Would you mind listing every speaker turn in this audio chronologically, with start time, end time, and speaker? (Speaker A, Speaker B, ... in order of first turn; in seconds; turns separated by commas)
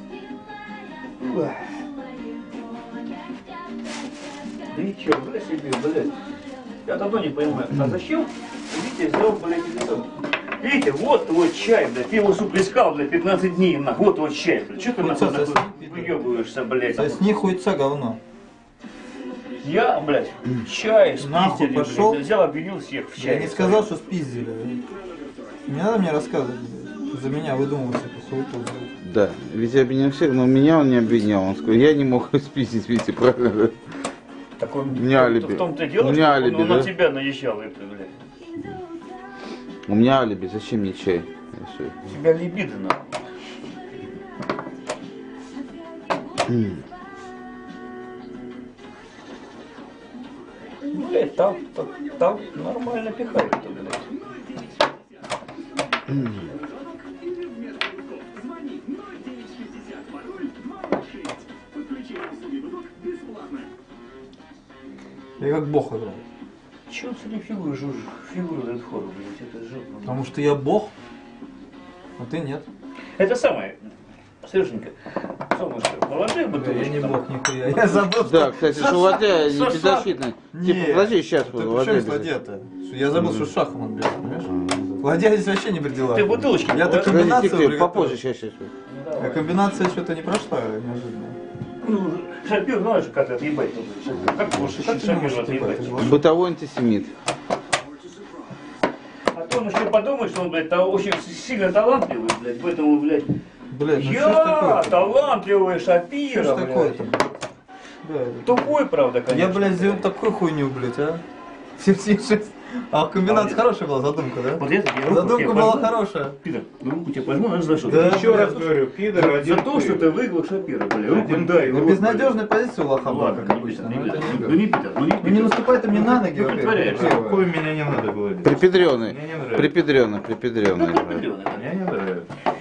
Speaker A: 1.2-1.8, Speaker A: 4.7-6.1, Speaker A: 6.8-17.2, Speaker B: 14.9-16.2, Speaker B: 16.9-18.2, Speaker A: 19.6-23.9, Speaker B: 21.2-22.2, Speaker B: 23.1-24.8, Speaker B: 25.7-28.9, Speaker C: 29.0-33.8, Speaker A: 34.6-38.2, Speaker C: 34.9-36.9, Speaker C: 39.9-42.1, Speaker A: 42.1-43.2, Speaker C: 46.5-46.8, Speaker A: 50.8-54.2, Speaker C: 56.1-56.4, Speaker B: 65.4-66.2, Speaker A: 66.9-70.3, Speaker B: 70.0-70.9, Speaker B: 72.2-72.7, Speaker A: 73.2-73.8, Speaker A: 74.4-74.9, Speaker A: 75.5-80.2, Speaker B: 76.5-79.0, Speaker C: 78.0-82.3, Speaker B: 80.5-88.2, Speaker C: 83.2-83.5, Speaker C: 84.5-85.0, Speaker A: 86.1-87.4, Speaker C: 86.9-88.7, Speaker A: 88.8-89.7, Speaker B: 89.2-91.4, Speaker A: 91.8-96.1, Speaker B: 94.6-96.3, Speaker C: 96.0-97.1, Speaker A: 99.3-103.3, Speaker B: 103.7-105.4, Speaker A: 103.9-107.4, Speaker B: 106.3-107.2, Speaker B: 108.0-111.2, Speaker A: 108.4-110.1, Speaker B: 111.8-116.3, Speaker A: 113.2-113.6, Speaker A: 114.5-127.2, Speaker B: 117.8-118.5, Speaker D: 117.8-120.1, Speaker D: 121.0-122.2, Speaker B: 121.6-124.6, Speaker B: 125.2-127.5, Speaker D: 126.7-129.8, Speaker C: 128.4-131.2, Speaker A: 130.7-131.6, Speaker D: 131.4-132.3